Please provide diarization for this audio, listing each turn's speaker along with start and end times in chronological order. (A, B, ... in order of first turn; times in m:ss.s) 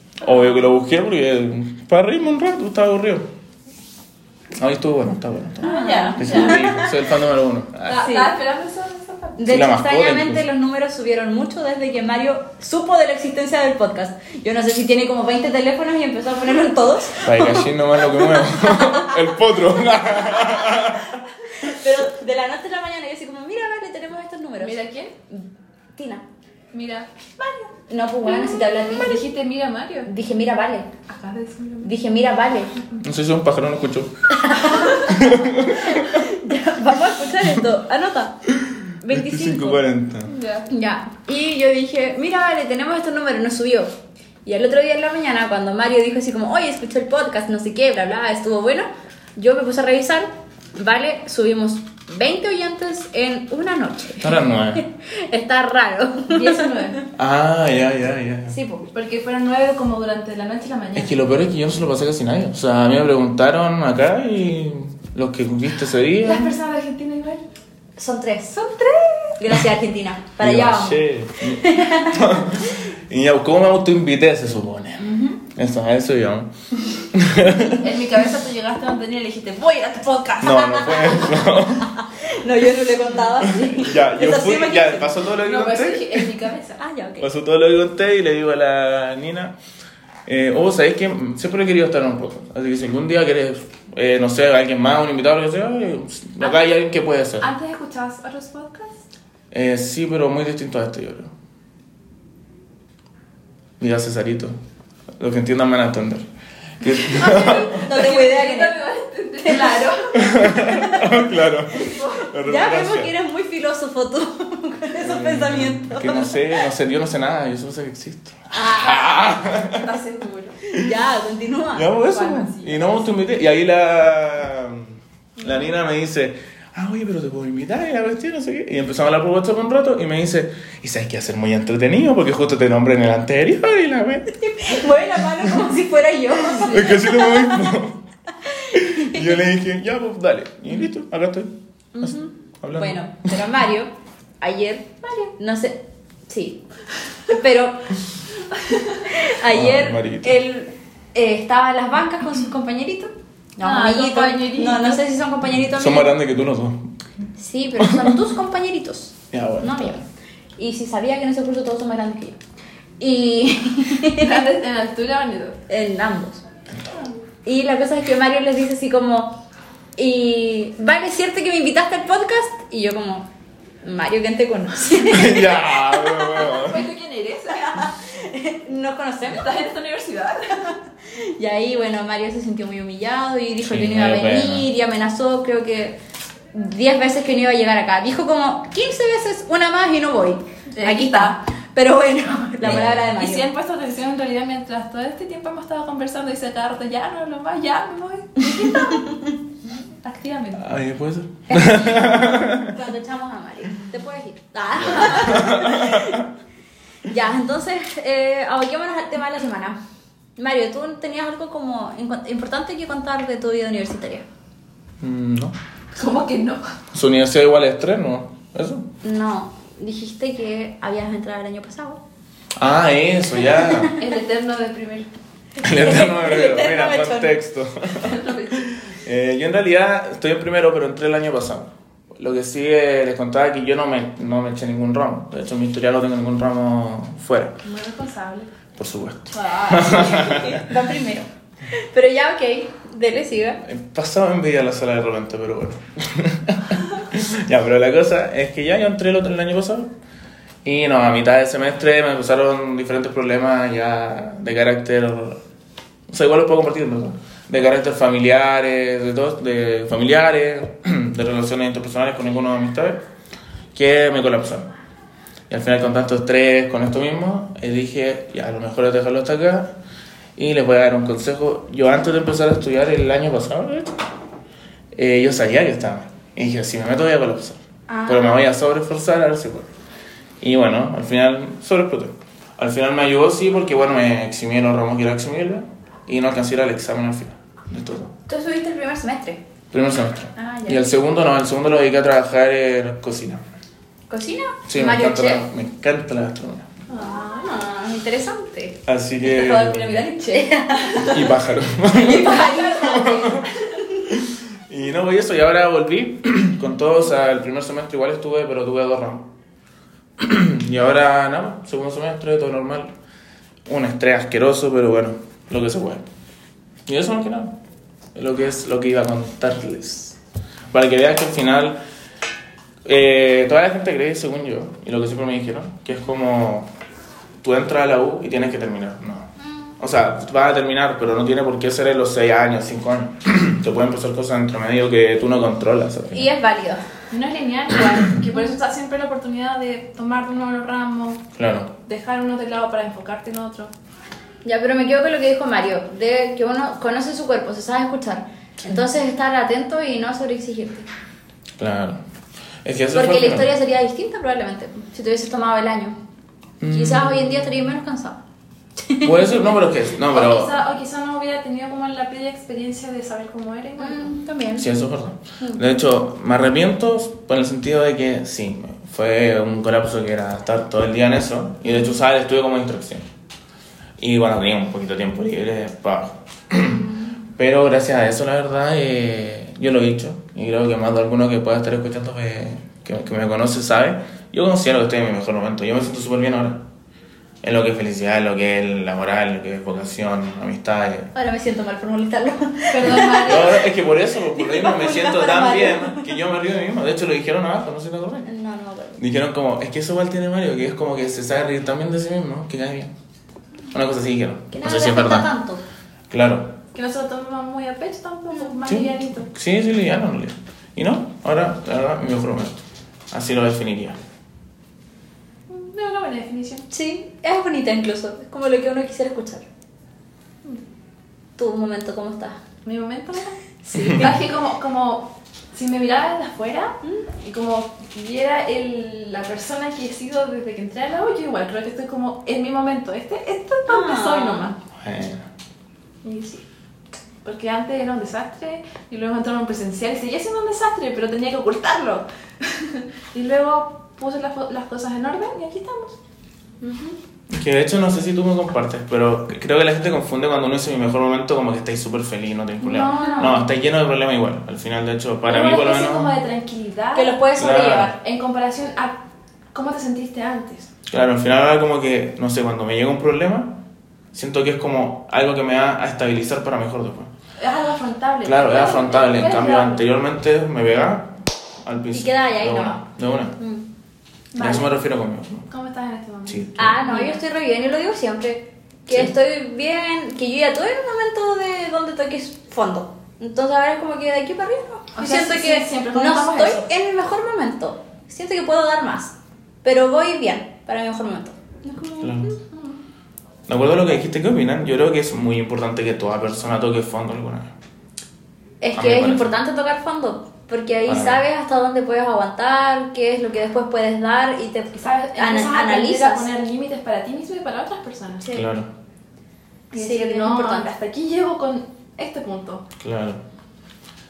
0:00.2-0:03.3 A
0:04.6-0:08.0 A
0:05.6-0:06.7 B
0:05.6-0:06.9 C
0:07.9-0:09.4 B
0:08.0-0:08.3 C
0:09.4-0:19.2 C
0:09.5-0:10.4 A
0:17.2-0:21.2 A
0:20.0-0:20.8 C
0:21.6-0:24.8 C
0:24.6-0:25.1 B
0:25.3-0:26.2 C
0:26.7-0:27.7 B
0:27.9-0:29.3 C
0:28.2-0:30.1 B
0:30.1-0:30.9 C
0:31.1-0:31.9 B
0:31.8-0:32.7 C
0:33.0-0:34.1 A
0:34.3-0:38.4 C
0:35.0-0:36.3 A
0:38.5-0:40.3 A
0:39.0-0:39.8 C
0:40.2-0:40.7 B
0:40.7-0:43.9 C
0:44.4-0:57.0 C
0:54.2-0:54.8 A
0:56.3-0:57.0 B
0:57.2-0:58.6 A
0:58.5-0:58.9 C
0:58.9-1:01.2 B
1:01.0-1:06.6 A
1:06.2-1:07.4 B
1:08.0-1:08.6 C
1:08.5-1:09.4 B
1:09.4-1:12.4 C
1:10.4-1:17.9 A
1:15.0-1:15.4 C
1:17.7-1:21.2 B
1:20.4-1:21.9 A
1:20.7-1:25.1 C
1:23.4-1:26.3 A
1:25.4-1:26.8 B
1:26.8-1:27.3 C
1:27.2-1:29.6 A
1:30.3-1:37.5 A
1:37.4-1:39.0 B
1:39.5-1:41.3 A
1:43.8-1:44.6 A
1:45.2-1:46.3 A
1:46.8-1:47.8 A
1:47.0-1:50.5 B
1:47.7-1:48.8 C
1:49.4-1:51.2 C
1:50.2-1:53.1 A
1:51.7-1:52.3 B
1:52.4-1:56.6 C
1:55.0-1:59.9 A
1:58.5-1:59.3 C
1:58.8-2:00.6 B
2:00.8-2:01.9 C
2:01.8-2:14.3 A
2:02.0-2:03.0 B
2:05.4-2:05.7 B
2:14.3-2:17.7 C
2:16.5-2:17.0 B
2:16.5-2:18.0 A
2:18.5-2:19.4 C
2:18.7-2:23.4 A
2:22.0-2:26.6 C
2:25.0-2:25.3 B
2:27.3-2:27.9 C
2:28.6-2:29.0 B
2:29.1-2:36.1 C
2:29.5-2:30.4 A
2:33.6-2:35.0 B
2:35.6-2:36.9 A
2:37.4-2:40.0 C
2:37.8-2:38.2 A
2:39.3-2:40.1 A
2:40.6-2:42.4 C
2:43.0-2:44.4 C
2:44.2-2:45.6 B
2:45.7-2:46.4 C
2:46.7-2:47.0 A
2:47.4-2:49.4 C
2:50.0-2:53.3 C
2:53.8-2:56.6 C
2:55.0-2:56.8 A
2:56.4-2:57.9 B
2:57.6-2:59.6 C
2:59.3-3:00.7 B
3:01.2-3:06.0 C
3:03.6-3:04.7 A
3:06.5-3:13.5 C
3:10.8-3:11.4 B
3:12.6-3:13.0 A
3:12.7-3:19.1 B
3:18.4-3:19.4 C
3:20.0-3:20.7 B
3:20.6-3:22.8 A
3:21.5-3:26.3 C
3:24.8-3:26.2 A
3:27.1-3:29.8 C
3:30.4-3:34.3 C
3:35.0-3:35.6 A
3:35.9-3:36.6 B
3:36.9-3:38.9 A
3:39.0-3:42.0 C
3:42.6-3:43.9 A
3:43.6-3:44.0 C
3:44.0-3:45.1 B
3:45.6-3:48.2 A
3:45.6-3:47.3 C
3:48.0-3:48.8 B
3:48.9-3:57.6 A
3:57.6-3:58.5 B
3:58.8-4:00.7 A
3:59.3-4:00.5 B
3:59.9-4:03.6 C
4:03.6-4:09.9 A
4:10.6-4:15.4 A
4:16.1-4:23.0 A
4:23.7-4:24.7 A
4:25.5-4:29.7 A
4:30.4-4:33.9 A
4:34.9-4:39.7 A
4:37.9-4:38.4 C
4:40.4-4:48.1 A
4:48.3-4:49.4 C
4:49.7-4:53.4 A
4:50.4-4:50.8 C
4:54.1-4:55.4 C
4:54.7-4:56.7 A
4:56.9-4:57.7 B
4:57.0-5:01.2 C
4:58.9-5:00.1 A
4:59.5-5:01.3 B
5:01.0-5:03.5 A
5:01.9-5:03.3 C
5:01.9-5:03.8 B
5:04.1-5:09.3 A
5:10.2-5:12.9 A
5:13.6-5:16.0 A
5:16.9-5:17.6 A
5:18.1-5:20.2 A
5:20.7-5:21.8 A
5:22.8-5:26.7 A
5:27.4-5:36.3 A
5:29.4-5:29.7 C
5:36.1-5:36.8 C
5:37.1-5:41.3 B
5:41.4-5:41.7 A
5:41.9-5:43.7 B
5:44.4-5:50.9 C
5:51.6-5:52.0 A
5:52.6-5:53.5 A
5:52.9-5:56.0 C
5:56.6-5:57.7 A
5:56.6-5:58.2 C
5:58.8-5:59.3 C
5:59.0-6:00.6 A
6:00.1-6:04.2 B
6:03.8-6:04.7 C
6:04.6-6:13.0 A
6:14.0-6:26.6 A
6:27.4-6:31.1 A
6:31.1-6:33.6 C
6:32.7-6:33.7 B
6:33.0-6:38.3 A
6:34.3-6:36.1 C
6:38.3-6:39.0 C
6:39.0-6:42.9 A
6:43.7-6:45.3 A
6:44.5-6:45.6 C
6:46.1-6:46.6 A
6:46.7-6:49.3 B
6:48.7-6:54.0 A
6:55.5-6:56.7 B
6:56.7-6:59.4 C
7:01.4-7:02.4 C
7:02.6-7:03.4 B
7:03.6-7:04.2 C
7:03.9-7:14.6 B
7:13.7-7:14.5 C
7:14.7-7:15.3 A
7:16.0-7:16.4 B
7:17.2-7:26.0 B
7:27.3-7:36.2 A
7:32.6-7:33.5 B
7:32.8-7:33.4 C
7:35.3-7:37.2 B
7:37.0-7:38.0 C
7:37.4-7:37.9 A
7:37.9-7:39.0 B
7:39.5-7:40.7 B
7:40.9-7:43.6 A
7:44.1-7:47.1 A
7:47.4-7:49.8 B
7:48.2-7:53.4 A
7:51.9-7:52.8 C
7:53.4-7:53.6 C
7:54.3-7:54.8 B
7:54.4-7:55.5 A
7:55.5-7:57.2 B
7:56.3-7:56.8 A
7:56.6-8:12.4 C
8:05.0-8:06.7 B
8:12.0-8:12.3 A
8:12.5-8:12.8 B
8:13.5-8:17.5 A
8:18.6-8:26.3 C
8:18.8-8:19.4 A
8:20.9-8:21.2 A
8:24.8-8:28.3 B
8:28.3-8:28.7 A
8:29.7-8:30.7 C
8:29.7-8:32.6 B
8:32.8-8:33.2 A